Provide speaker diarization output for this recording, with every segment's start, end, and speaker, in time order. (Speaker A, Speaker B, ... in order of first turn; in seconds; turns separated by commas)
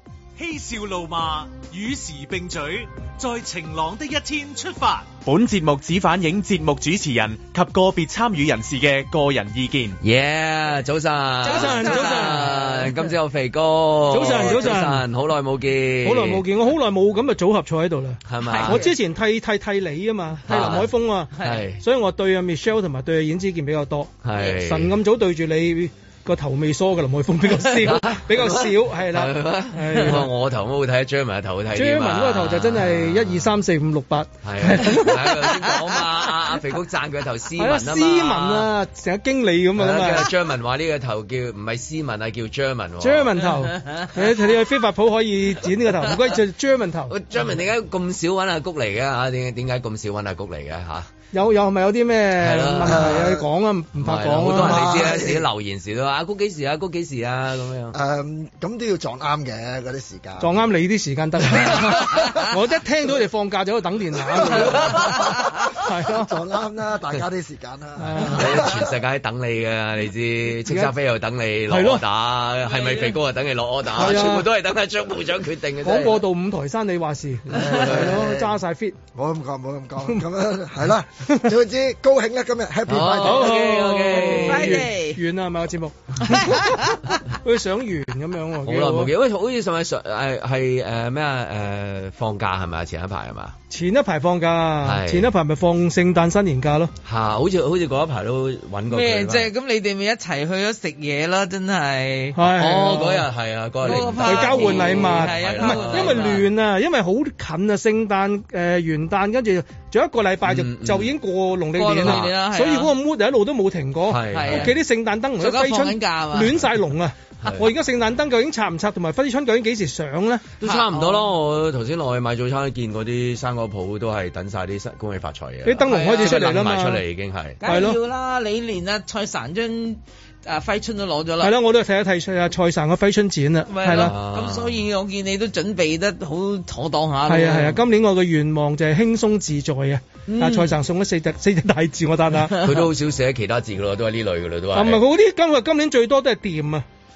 Speaker A: 0.4-5.2, Speaker B: 5.2-10.0, Speaker C: 10.0-16.4, Speaker D: 11.4-13.1, Speaker E: 11.4-12.6, Speaker E: 14.1-15.1, Speaker D: 14.1-14.8, Speaker E: 16.0-30.3, Speaker C: 18.3-18.8, Speaker D: 18.4-18.9, Speaker D: 20.5-20.8, Speaker C: 20.5-21.8, Speaker D: 21.3-21.6, Speaker C: 24.2-24.9, Speaker C: 27.7-33.5, Speaker E: 31.7-35.5, Speaker C: 34.4-38.7, Speaker E: 37.6-40.3, Speaker C: 39.8-43.5, Speaker E: 43.0-47.1, Speaker C: 47.1-51.1, Speaker E: 51.3-55.1, Speaker C: 52.4-53.4, Speaker F: 52.9-53.4, Speaker C: 54.0-58.0, Speaker F: 54.5-55.5, Speaker F: 57.9-60.6, Speaker E: 60.4-65.2, Speaker F: 62.2-62.4, Speaker F: 64.3-65.2, Speaker C: 64.6-65.1, Speaker E: 65.8-66.3, Speaker F: 66.2-68.9, Speaker E: 68.0-68.7, Speaker C: 68.3-76.2, Speaker E: 70.7-70.9, Speaker E: 71.7-72.0, Speaker D: 72.7-73.2, Speaker E: 73.9-74.5, Speaker E: 75.8-79.0, Speaker C: 77.5-78.3, Speaker F: 77.5-78.5, Speaker F: 79.1-83.4, Speaker C: 82.9-84.9, Speaker E: 83.1-89.1, Speaker D: 83.2-83.4, Speaker D: 84.1-85.2, Speaker D: 86.3-87.0, Speaker C: 88.6-93.5, Speaker E: 93.7-96.9, Speaker C: 94.8-95.3, Speaker C: 97.0-99.5, Speaker D: 98.9-103.2, Speaker E: 102.3-103.0, Speaker C: 102.4-106.4, Speaker D: 103.8-106.4, Speaker E: 103.8-120.5, Speaker C: 110.4-111.1, Speaker D: 111.8-112.9, Speaker C: 112.0-112.3, Speaker C: 114.1-114.7, Speaker D: 114.3-114.7, Speaker D: 115.4-116.6, Speaker C: 120.6-127.6, Speaker D: 120.6-121.2, Speaker E: 125.6-127.0, Speaker D: 125.8-126.4, Speaker D: 127.6-131.5, Speaker E: 127.6-128.0, Speaker E: 131.4-134.1, Speaker D: 133.7-137.8, Speaker C: 133.8-134.8, Speaker E: 137.3-142.6, Speaker D: 140.3-140.7, Speaker C: 142.6-145.0, Speaker E: 144.7-146.8